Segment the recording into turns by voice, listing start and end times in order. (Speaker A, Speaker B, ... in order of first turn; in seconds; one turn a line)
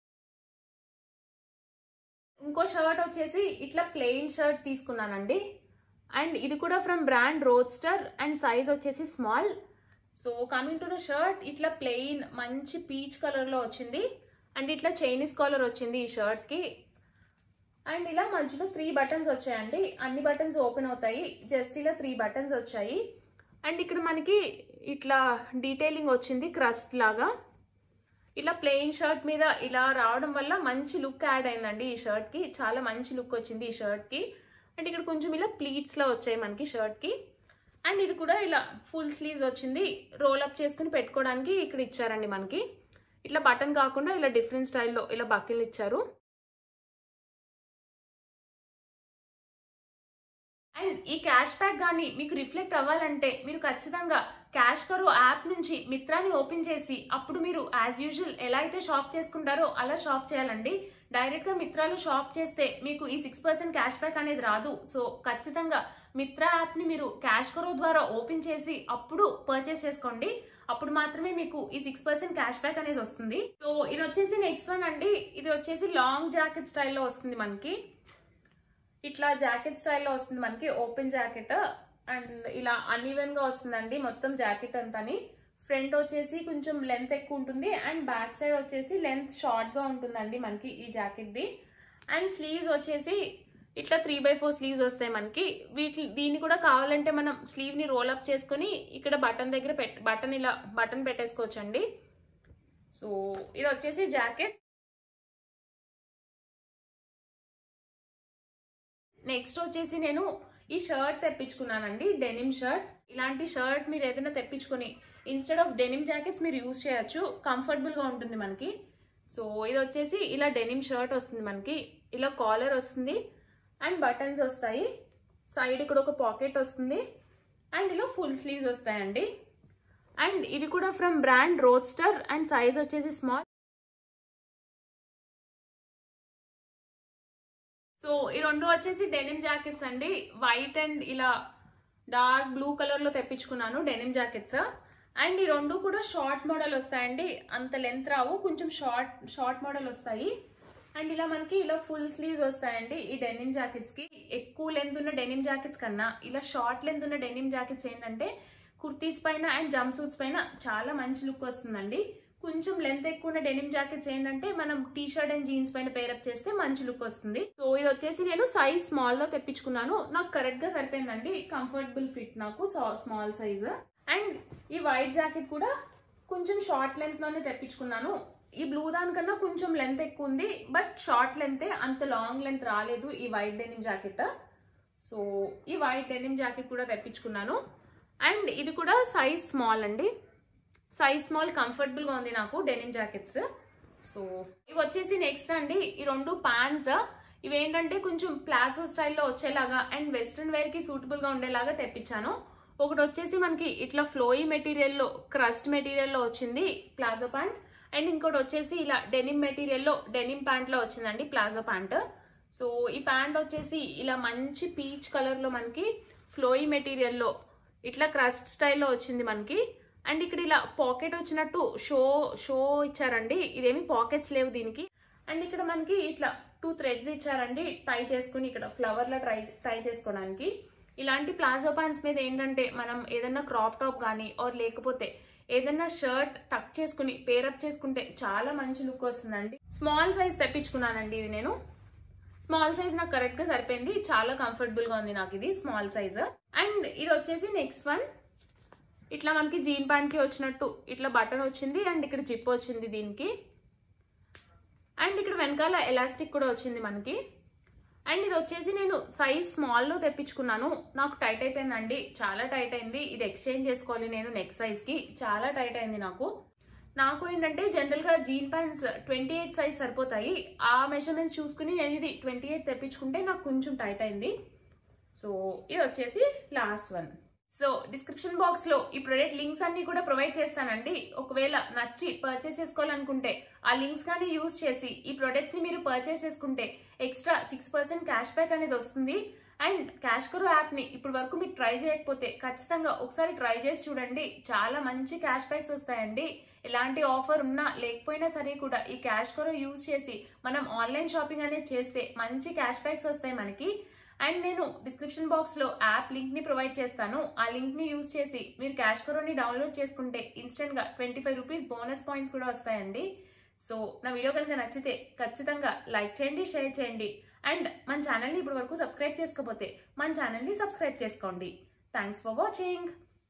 Speaker A: 2.4-5.4
Speaker A: 6.2-9.5
Speaker A: 10.2-14.0
Speaker A: 14.6-16.6
Speaker A: 17.9-23.0
Speaker A: 23.6-27.3
Speaker A: 28.4-34.2
Speaker A: 34.8-37.1
Speaker A: 37.9-42.6
Speaker A: 43.2-46.0
Speaker A: 50.8-77.8
Speaker A: 79.0-91.5
Speaker A: 92.1-93.2
Speaker A: 93.8-101.8
Speaker A: 102.9-104.6
Speaker A: 109.3-118.7
Speaker A: 119.3-123.2
Speaker A: 123.8-124.9
Speaker A: 125.5-127.0
Speaker A: 127.7-129.3
Speaker A: 130.2-133.4
Speaker A: 138.0-141.3
Speaker A: 142.1-144.6
Speaker A: 145.2-150.3
Speaker A: 150.9-175.7
Speaker A: 176.3-184.3
Speaker A: 185.0-187.6
Speaker A: 188.2-190.1
Speaker A: 190.9-193.4
Speaker A: 194.1-212.0
Speaker A: 212.5-217.3
Speaker A: 217.8-241.6
Speaker A: 242.4-248.1
Speaker A: 249.1-253.3
Speaker A: 255.0-257.2
Speaker A: 258.1-266.3
Speaker A: 267.0-274.3
Speaker A: 275.1-303.7
Speaker A: 304.2-313.1
Speaker A: 313.6-322.9